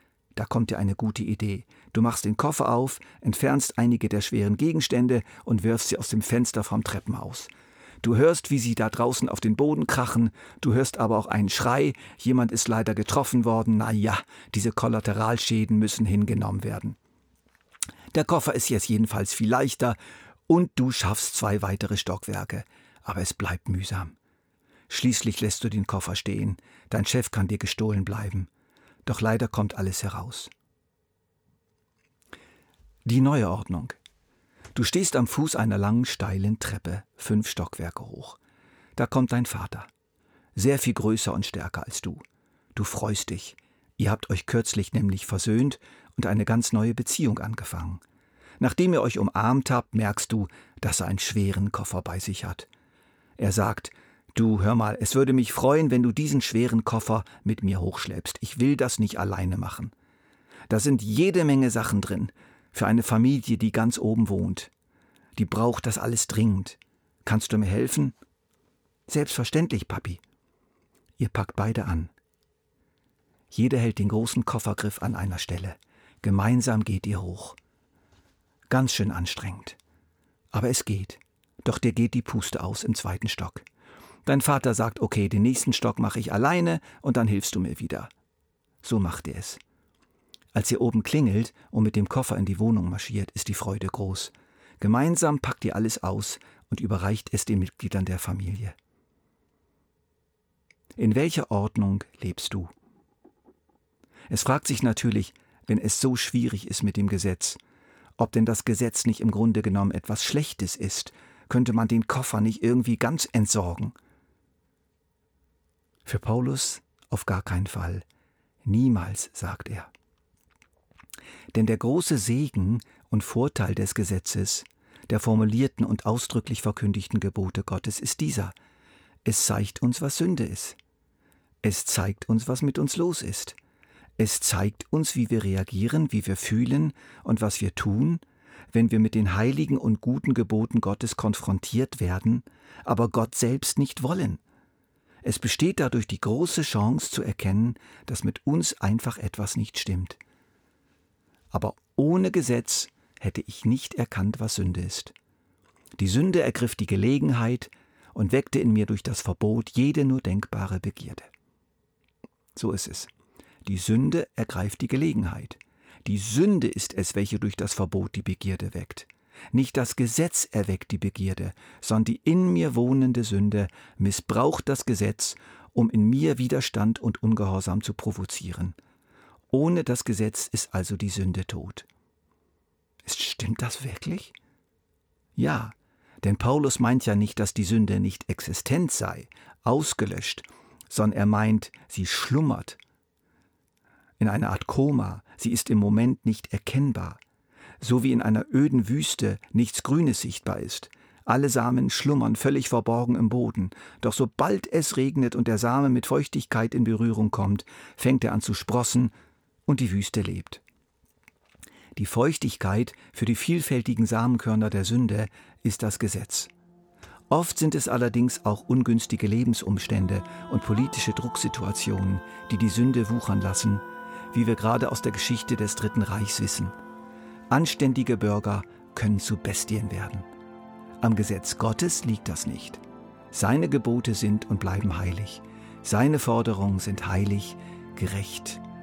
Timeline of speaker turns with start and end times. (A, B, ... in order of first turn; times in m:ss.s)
0:00.4-0:07.5 A
0:08.0-0:17.0 A
0:18.1-0:20.0 A
0:20.5-0:24.2 A
0:24.9-0:28.5 A
0:29.0-0:30.5 A
0:33.0-0:34.0 A
0:34.7-0:38.4 A
0:39.0-0:39.9 A
0:40.6-0:42.2 A
0:42.8-0:48.0 A
0:48.6-0:52.7 A
0:53.4-0:59.9 A
1:00.7-1:04.7 A
1:05.4-1:08.2 A
1:09.1-1:10.2 A
1:11.2-1:12.1 A
1:13.5-1:17.6 A
1:18.7-1:19.8 A
1:20.5-1:23.6 A
1:24.2-1:28.1 A
1:28.8-1:29.6 A
1:30.5-1:38.8 A
1:41.0-1:42.7 A
1:44.3-1:47.6 A
1:48.2-1:54.0 A
1:56.1-1:58.1 A
1:58.6-1:59.9 A
2:01.5-2:08.6 A
2:09.2-2:10.8 A
2:11.6-2:13.6 A
2:14.2-2:24.4 A
2:25.2-2:30.2 A
2:31.5-2:35.1 A
2:36.0-2:41.3 A
2:42.6-2:43.1 A
2:43.6-2:58.8 A
2:59.5-3:01.9 A
3:03.0-3:04.3 A
3:05.4-3:12.8 A
3:14.2-3:17.2 A
3:17.8-3:29.1 A
3:29.7-3:30.6 A
3:32.0-3:36.5 A
3:37.3-3:46.8 A
3:47.5-3:50.3 A
3:51.0-3:58.6 A